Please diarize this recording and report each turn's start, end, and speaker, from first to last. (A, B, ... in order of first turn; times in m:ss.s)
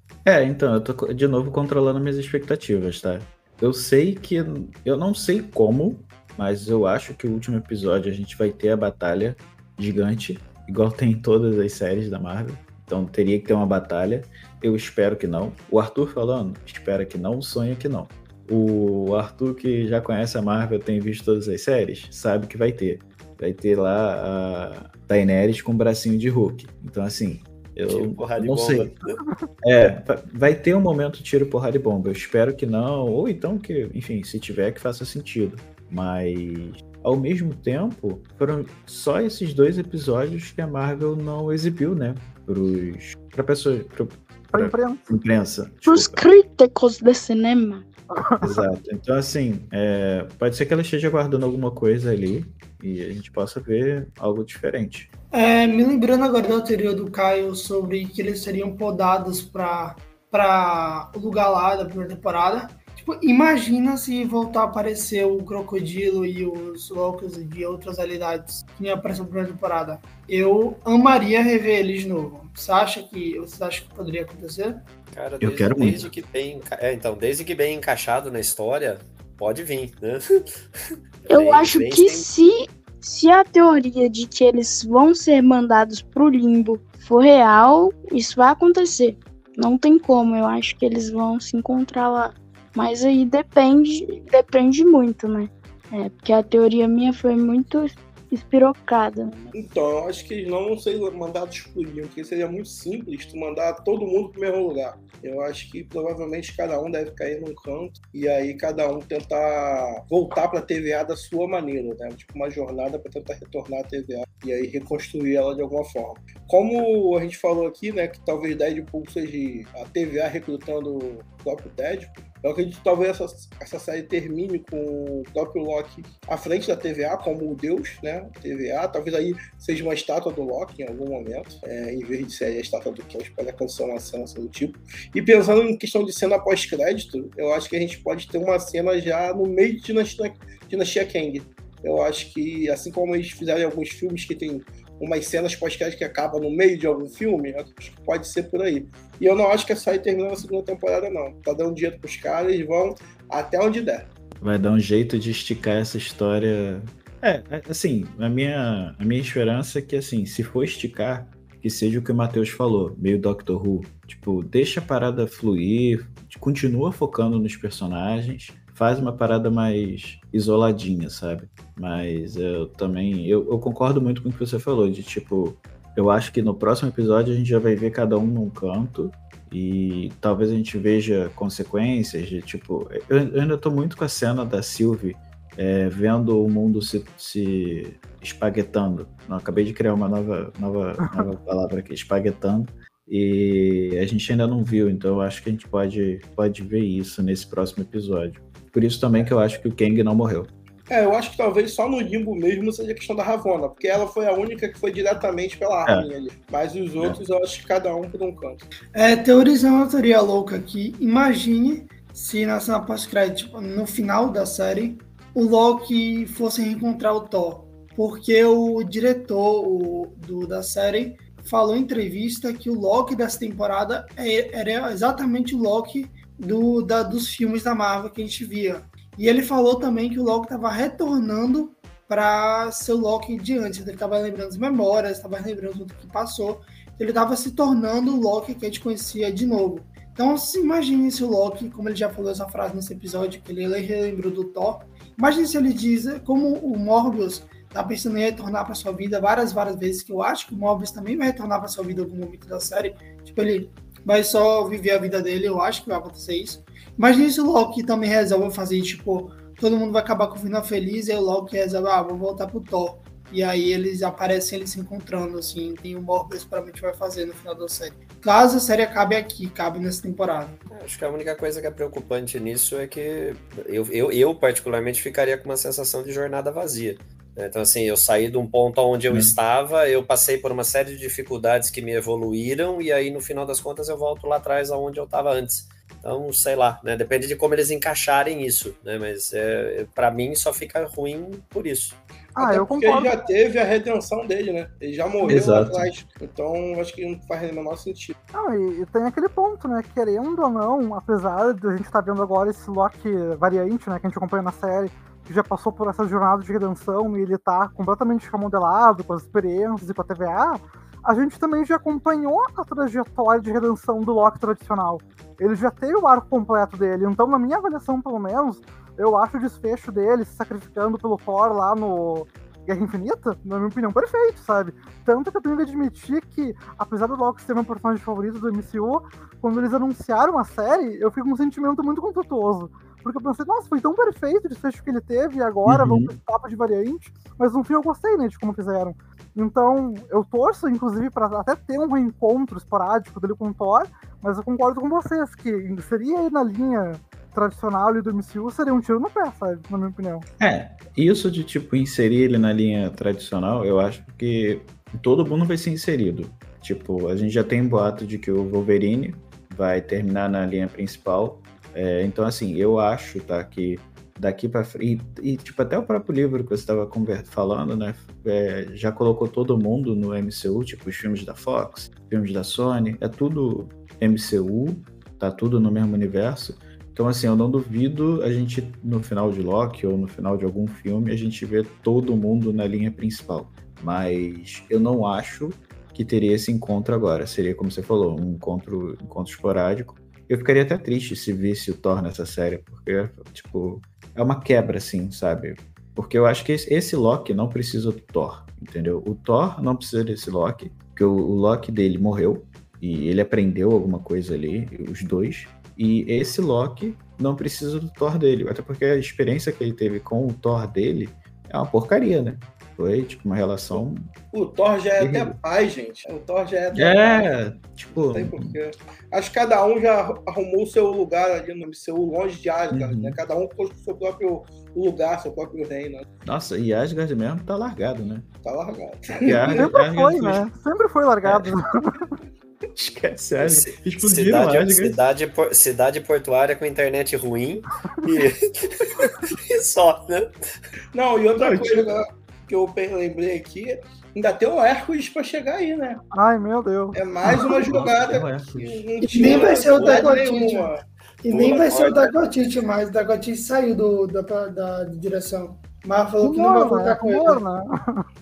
0:00.2-0:28.9 A
0:27.8-0:29.2 B
0:29.6-0:46.2 A
0:44.5-0:45.1 C
0:45.9-0:47.9 D
0:48.1-0:48.6 C
0:48.4-0:55.1 A
0:55.3-1:14.8 E
1:15.1-1:20.2 B
1:15.4-1:16.1 A
1:21.3-1:22.3 B
1:21.3-1:39.6 D
1:39.5-2:34.1 F
2:34.4-3:20.5 A
3:20.9-3:28.6 F
3:28.9-4:30.6 E
4:30.7-4:52.0 B
4:52.4-4:53.3 C
4:52.4-4:58.2 F
4:55.2-4:55.9 A
4:58.3-5:50.2 C
5:35.6-5:36.1 A
5:50.4-6:54.1 A
6:54.3-6:57.3 F
6:55.0-6:55.4 A
6:56.7-6:58.5 A
6:57.9-7:06.0 F
7:02.7-7:03.2 A
7:06.2-7:08.3 A
7:08.4-7:09.6 F
7:09.2-7:10.4 A
7:09.5-7:12.0 C
7:11.2-7:11.5 A
7:12.7-7:15.0 A
7:13.4-7:20.3 B
7:20.9-7:26.0 F
7:21.4-7:21.9 A
7:26.1-7:27.6 C
7:26.9-7:32.2 F
7:27.5-7:29.3 A
7:29.1-7:30.7 E
7:31.2-7:37.4 E
7:36.2-7:38.0 C